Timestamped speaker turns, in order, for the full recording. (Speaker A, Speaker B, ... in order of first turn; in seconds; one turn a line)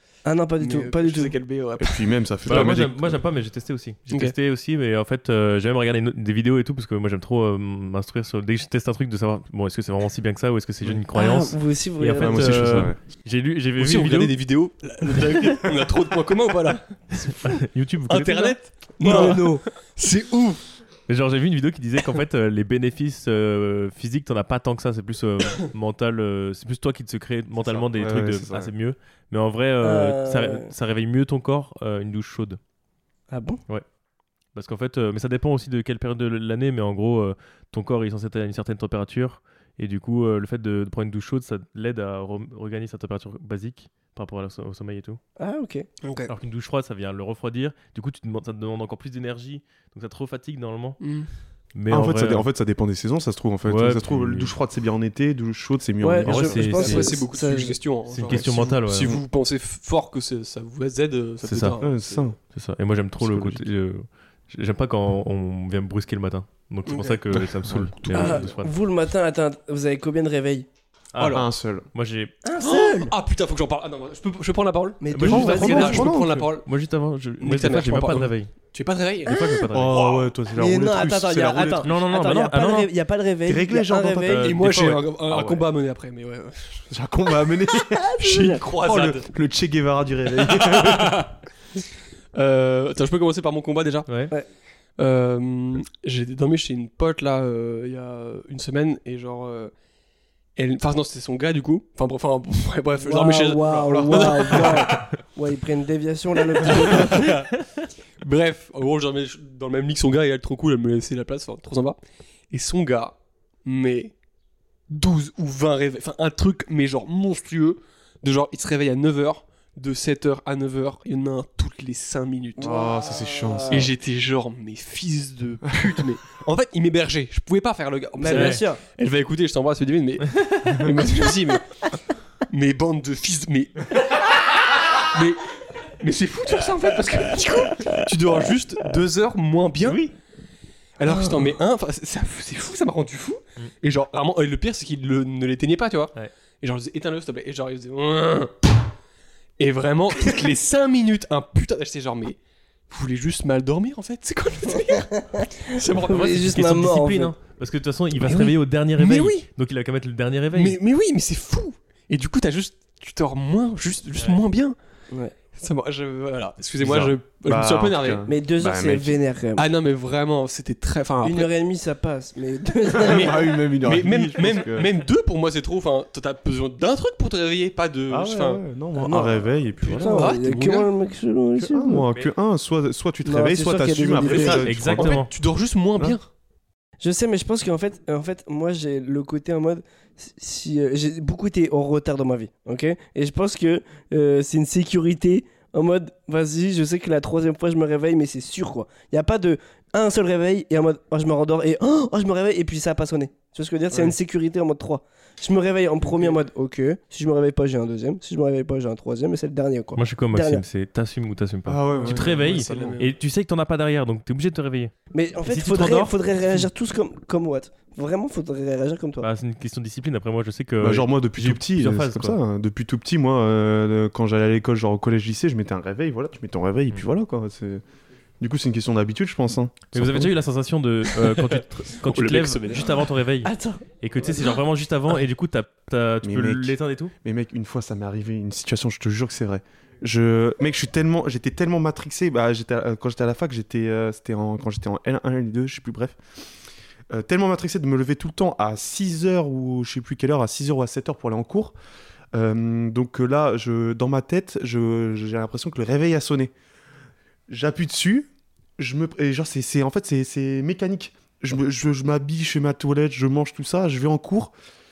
Speaker A: 0.2-1.4
Speaker B: 0.6-2.8
Speaker C: 1.8-3.2
Speaker D: 2.5-14.4
Speaker B: 4.1-4.3
Speaker A: 11.1-12.8
Speaker C: 12.2-13.0
Speaker B: 13.8-20.7
Speaker D: 15.1-15.5
Speaker D: 17.1-18.6
Speaker A: 19.0-19.6
Speaker D: 19.1-19.4
Speaker D: 21.1-32.6
Speaker C: 27.6-28.7
Speaker A: 29.8-30.7
Speaker A: 33.3-33.6
Speaker D: 34.5-45.2
Speaker A: 45.4-45.9
Speaker B: 46.0-46.3
Speaker D: 46.3-51.0
Speaker B: 51.0-51.3
Speaker D: 51.8-52.5
Speaker C: 51.9-56.8
Speaker D: 53.7-54.5
Speaker A: 56.0-57.8
Speaker D: 56.2-57.1
Speaker B: 56.7-62.3
Speaker D: 58.1-59.2
Speaker D: 61.4-61.8
Speaker C: 61.7-62.4
Speaker D: 62.4-68.7
Speaker C: 63.2-63.7
Speaker B: 66.9-67.2
Speaker C: 67.3-68.5
Speaker A: 68.1-70.7
Speaker D: 71.1-72.3
Speaker B: 71.2-71.5
Speaker C: 71.2-71.9
Speaker A: 72.4-73.1
Speaker B: 72.6-76.7
Speaker A: 75.0-76.0
Speaker D: 75.1-78.5
Speaker C: 75.2-76.5
Speaker B: 77.4-80.3
Speaker D: 79.2-80.0
Speaker C: 79.7-81.9
Speaker A: 80.5-84.5
Speaker D: 81.8-82.9
Speaker C: 83.5-85.7
Speaker D: 84.3-85.0
Speaker B: 84.4-86.9
Speaker C: 86.9-91.2
Speaker A: 87.9-88.6
Speaker B: 88.2-89.3
Speaker B: 90.4-91.3
Speaker B: 92.3-94.1
Speaker B: 95.0-99.7
Speaker B: 100.6-105.0
Speaker A: 103.0-107.3
Speaker C: 103.9-104.3
Speaker B: 106.5-107.6
Speaker B: 108.2-112.0
Speaker B: 112.5-114.1
Speaker B: 114.9-122.8
Speaker A: 122.6-123.9
Speaker C: 122.6-123.9
Speaker B: 123.7-131.6
Speaker A: 128.2-128.8
Speaker D: 128.3-128.6
Speaker B: 132.5-134.4
Speaker B: 135.0-140.1
Speaker D: 139.8-140.1
Speaker B: 141.0-148.7
Speaker B: 149.6-152.4
Speaker B: 152.9-156.6
Speaker A: 155.1-157.3
Speaker D: 156.2-160.8
Speaker B: 158.2-159.5
Speaker B: 160.5-164.8
Speaker B: 165.6-168.3
Speaker C: 166.8-169.2
Speaker A: 168.3-169.7
Speaker B: 169.6-171.5
Speaker A: 171.2-173.5
Speaker C: 172.9-174.9
Speaker B: 173.1-178.6
Speaker C: 178.1-180.3
Speaker A: 179.0-182.1
Speaker B: 180.1-180.9
Speaker C: 181.6-185.2
Speaker A: 183.2-184.6
Speaker B: 184.2-186.3
Speaker D: 184.5-185.3
Speaker A: 187.0-210.6
Speaker B: 206.0-206.4
Speaker D: 210.0-214.9
Speaker C: 211.7-212.9
Speaker B: 212.0-213.1
Speaker A: 215.1-219.3
Speaker D: 215.5-216.1
Speaker D: 219.2-222.4
Speaker C: 220.8-227.8
Speaker C: 228.4-230.3
Speaker D: 229.9-237.1
Speaker B: 231.1-233.1
Speaker A: 233.4-233.8
Speaker C: 236.2-246.2
Speaker C: 247.1-251.7
Speaker C: 252.3-256.5
Speaker C: 257.5-264.5